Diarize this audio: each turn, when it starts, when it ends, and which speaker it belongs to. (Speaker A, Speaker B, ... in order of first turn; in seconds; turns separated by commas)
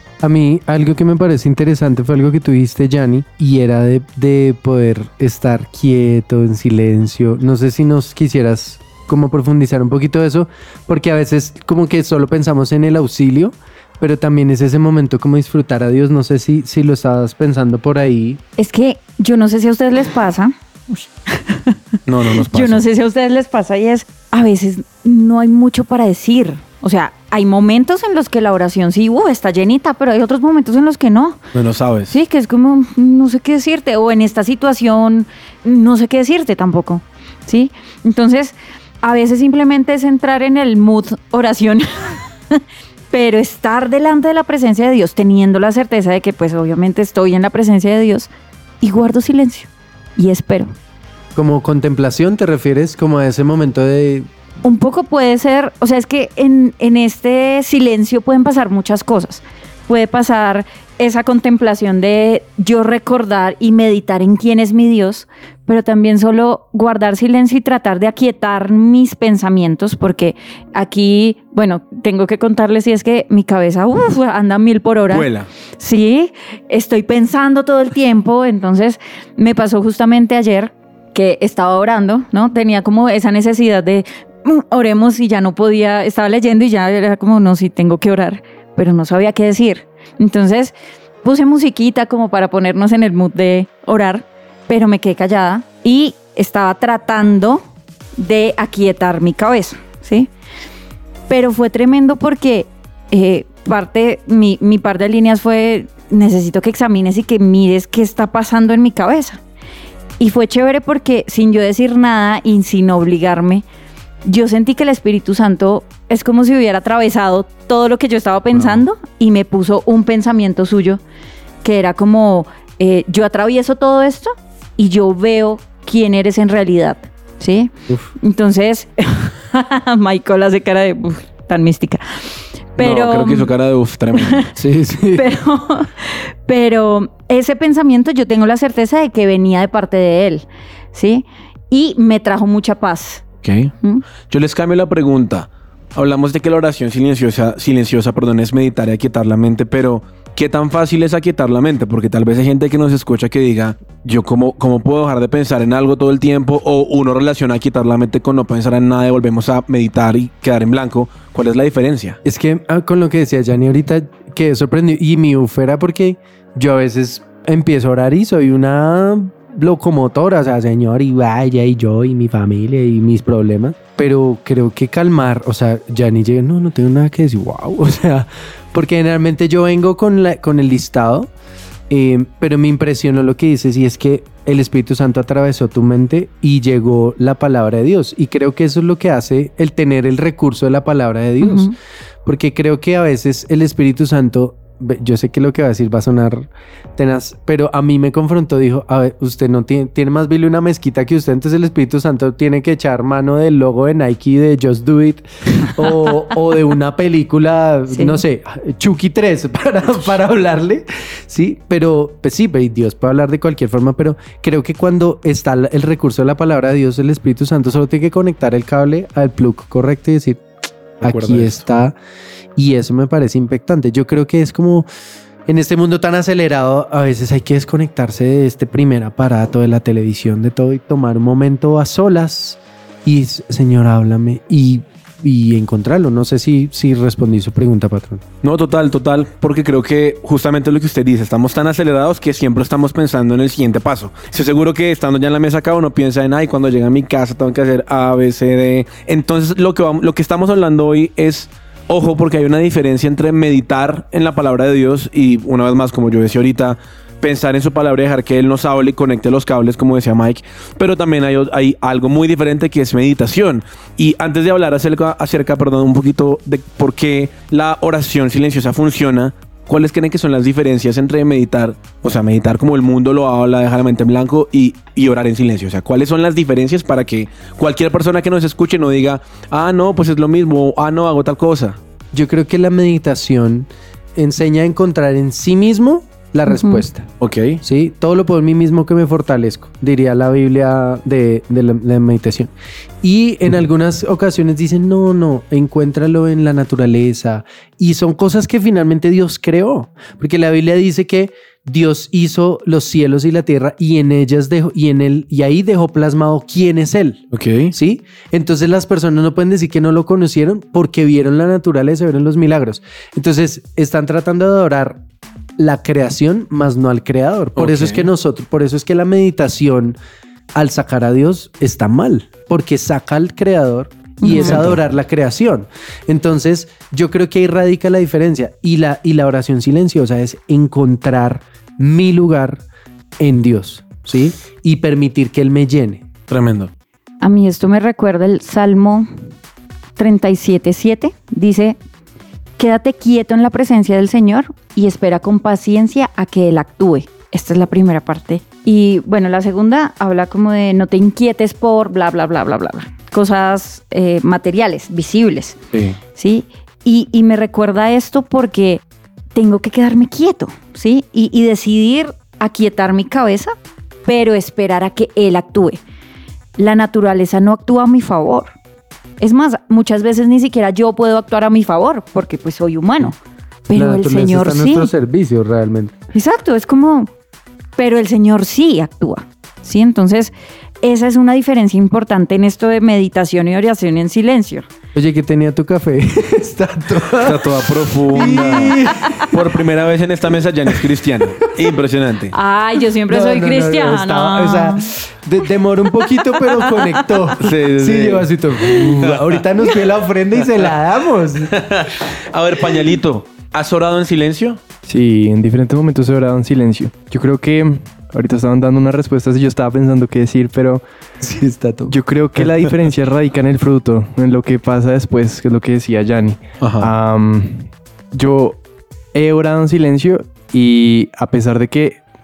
Speaker A: 0.2-18.4, Speaker B: 18.6-21.8, Speaker C: 22.1-22.8, Speaker B: 22.4-31.4, Speaker C: 31.5-32.1, Speaker B: 32.1-42.6, Speaker B: 43.1-48.3, Speaker B: 48.8-50.7, Speaker A: 51.3-54.3, Speaker B: 54.6-75.3, Speaker C: 75.1-75.5, Speaker B: 75.8-97.6, Speaker B: 98.2-100.3, Speaker B: 101.3-109.4, Speaker B: 110.2-113.6, Speaker B: 114.2-121.0, Speaker B: 121.6-132.0, Speaker B: 132.7-133.5, Speaker C: 132.8-134.4, Speaker A: 134.6-135.2, Speaker B: 135.1-143.2, Speaker C: 143.4-143.7, Speaker C: 144.3-162.2, Speaker A: 162.2-181.3, Speaker A: 181.9-191.7, Speaker B: 191.4-191.7, Speaker A: 192.2-220.4, Speaker B: 207.9-208.2, Speaker A: 221.0-222.0, Speaker C: 221.0-221.6, Speaker A: 222.6-224.9, Speaker A: 225.5-238.2, Speaker C: 238.4-281.8, Speaker A: 282.1-287.1, Speaker B: 286.4-286.8, Speaker C: 287.2-287.6, Speaker A: 287.6-292.5, Speaker A: 293.0-315.0, Speaker C: 307.3-307.7, Speaker A: 315.6-320.0, Speaker C: 317.6-318.1, Speaker A: 320.5-332.6, Speaker B: 324.2-324.6, Speaker C: 324.3-324.8, Speaker A: 333.2-336.1, Speaker C: 336.3-336.7, Speaker B: 337.2-339.1, Speaker B: 340.0-341.8, Speaker B: 342.6-355.6, Speaker B: 356.1-358.8, Speaker B: 359.3-363.5, Speaker B: 364.1-365.8, Speaker B: 366.6-368.5, Speaker B: 369.2-373.2, Speaker B: 373.7-374.9, Speaker A: 373.7-375.9, Speaker B: 376.1-377.1, Speaker B: 377.8-384.6, Speaker A: 384.9-389.3, Speaker C: 387.2-392.3, Speaker B: 392.3-394.9, Speaker A: 393.1-401.6, Speaker B: 396.4-396.8, Speaker C: 397.4-399.4, Speaker C: 401.5-404.6, Speaker D: 404.9-410.8, Speaker A: 411.2-411.9, Speaker D: 411.9-418.6, Speaker C: 416.6-416.9, Speaker D: 419.1-422.0